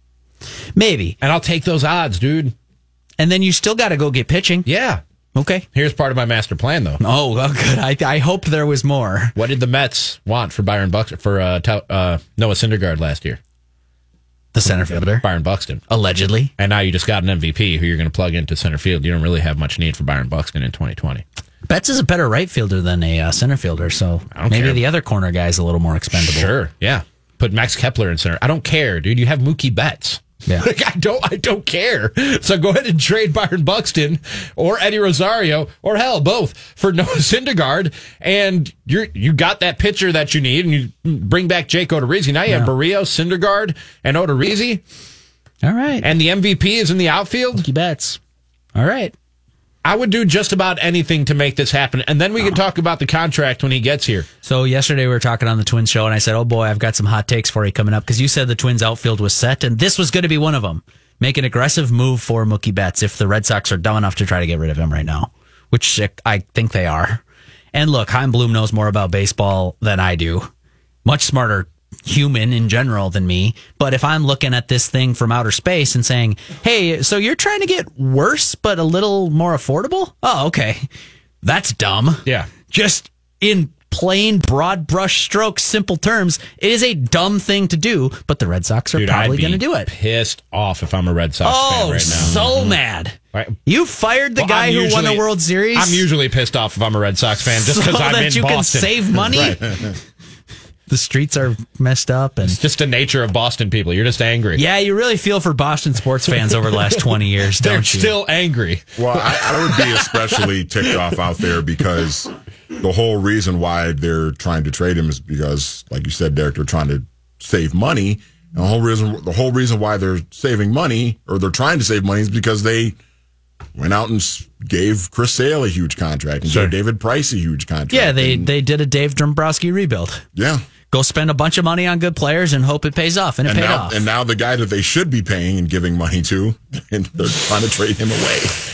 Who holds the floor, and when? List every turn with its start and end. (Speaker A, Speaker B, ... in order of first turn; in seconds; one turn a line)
Speaker A: 0.7-1.1
Speaker B: 1.2-2.5
Speaker A: 3.2-4.7
Speaker B: 4.7-5.0
Speaker A: 5.3-5.7
Speaker B: 5.7-7.0
Speaker A: 7.0-9.3
Speaker B: 9.3-13.4
Speaker A: 14.5-15.2
Speaker B: 15.2-15.8
Speaker A: 15.9-16.5
Speaker B: 16.6-21.2
Speaker A: 21.6-26.5
Speaker B: 24.3-24.8
Speaker B: 26.1-44.8
Speaker A: 45.6-46.1
Speaker B: 46.0-47.6
Speaker A: 47.5-48.2
Speaker A: 48.7-49.1
Speaker B: 49.8-54.3
Speaker A: 54.4-70.5
Speaker A: 71.0-80.8
Speaker A: 81.4-89.9
Speaker B: 82.2-82.5
Speaker B: 88.9-92.8
Speaker A: 91.4-96.1
Speaker B: 94.4-99.6
Speaker A: 97.5-99.8
Speaker A: 100.9-102.6
Speaker B: 102.4-104.6
Speaker A: 104.5-108.2
Speaker B: 106.5-110.4
Speaker C: 109.0-123.0
Speaker C: 123.7-128.5
Speaker A: 126.4-126.7
Speaker A: 127.9-130.2
Speaker C: 130.3-130.6
Speaker A: 130.9-134.1
Speaker C: 133.4-138.6